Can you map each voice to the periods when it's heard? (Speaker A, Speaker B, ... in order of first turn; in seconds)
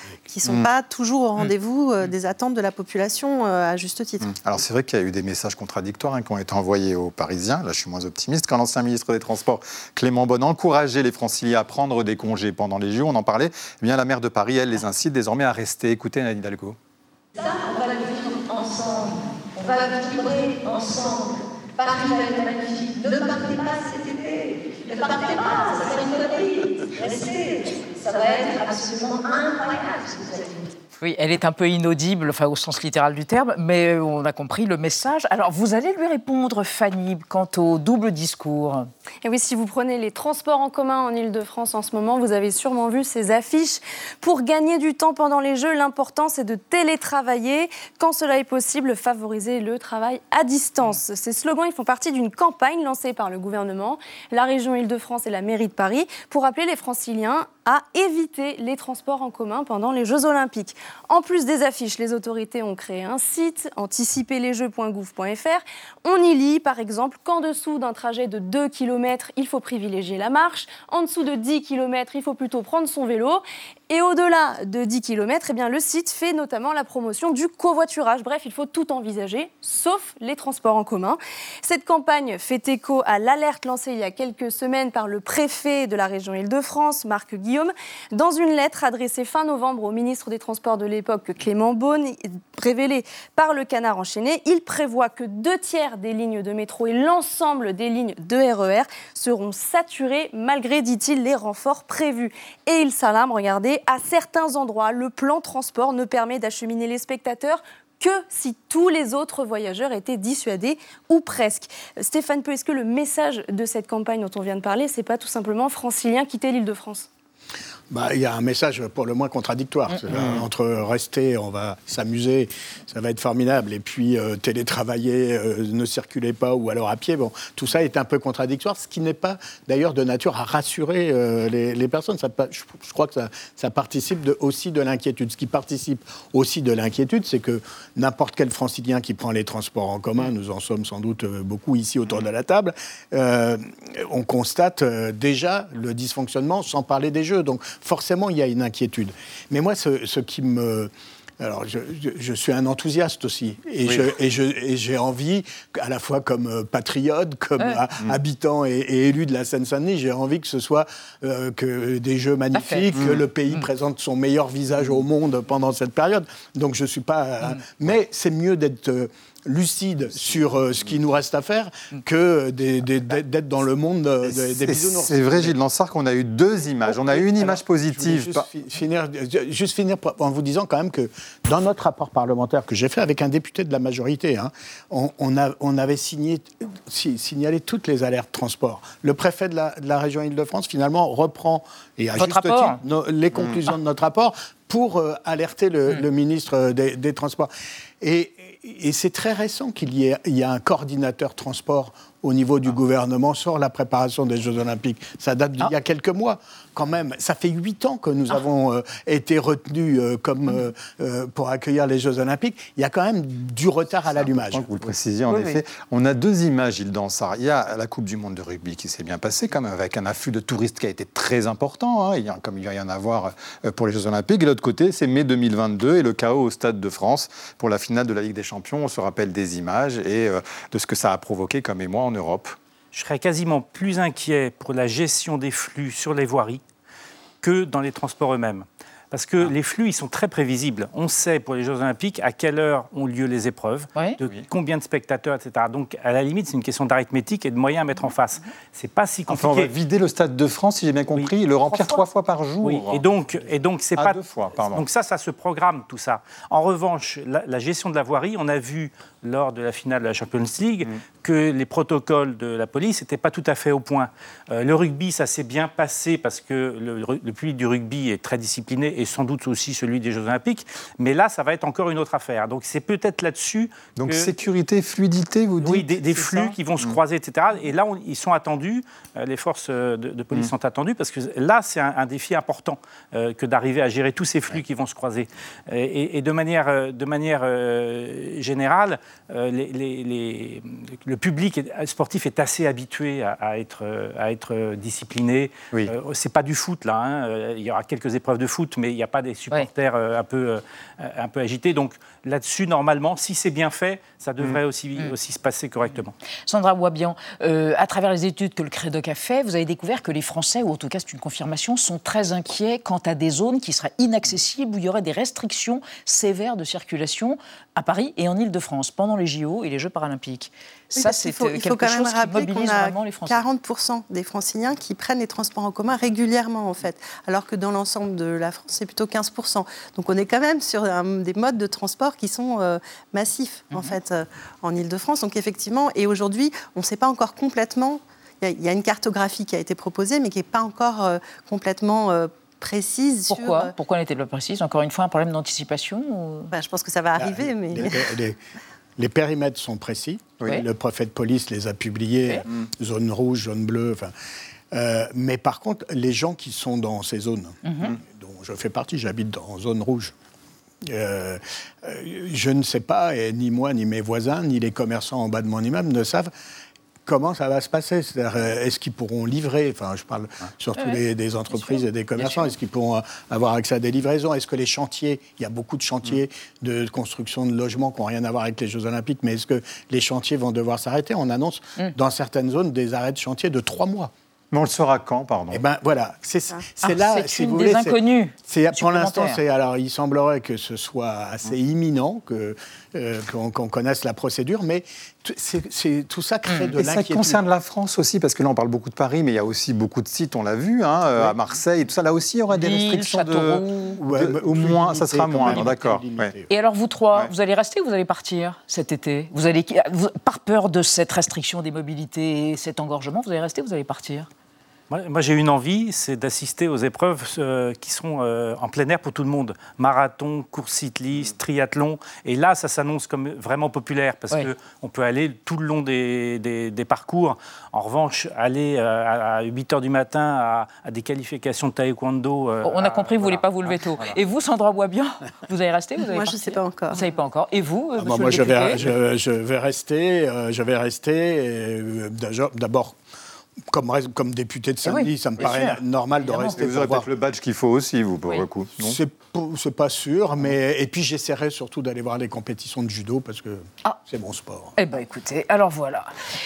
Speaker A: 0.3-4.3, 320.9-343.7, 346.5-348.1, 436.0-437.0
Speaker B: 4.2-16.8, 120.1-120.5, 162.9-163.2, 174.2-178.5, 214.1-232.6, 249.3-253.0, 253.9-254.8, 274.0-277.0, 384.5-385.6, 396.8-406.3, 446.5-449.0
Speaker C: 17.5-19.1, 19.6-21.2, 21.8-24.1, 25.0-27.4, 28.1-30.4
Speaker D: 31.0-38.9, 162.5-162.9, 192.1-192.8, 215.3-215.6, 306.5-323.4, 333.7-334.0, 343.3-346.5, 357.6-357.9, 370.8-372.5, 386.8-389.4, 402.5-404.0, 406.5-414.3, 432.6-438.9, 444.8-446.6, 454.8-456.1
Speaker E: 39.2-117.1
Speaker F: 117.9-175.5, 176.9-197.5, 198.0-214.7, 347.2-348.4, 349.0-354.1, 354.7-360.1, 360.8-366.3, 367.1-384.1, 385.5-397.4, 404.0-406.5, 438.0-443.0, 443.7-447.1, 448.8-454.7
Speaker G: 232.9-236.6, 237.4-249.7, 252.6-274.3, 275.6-306.1, 414.9-433.8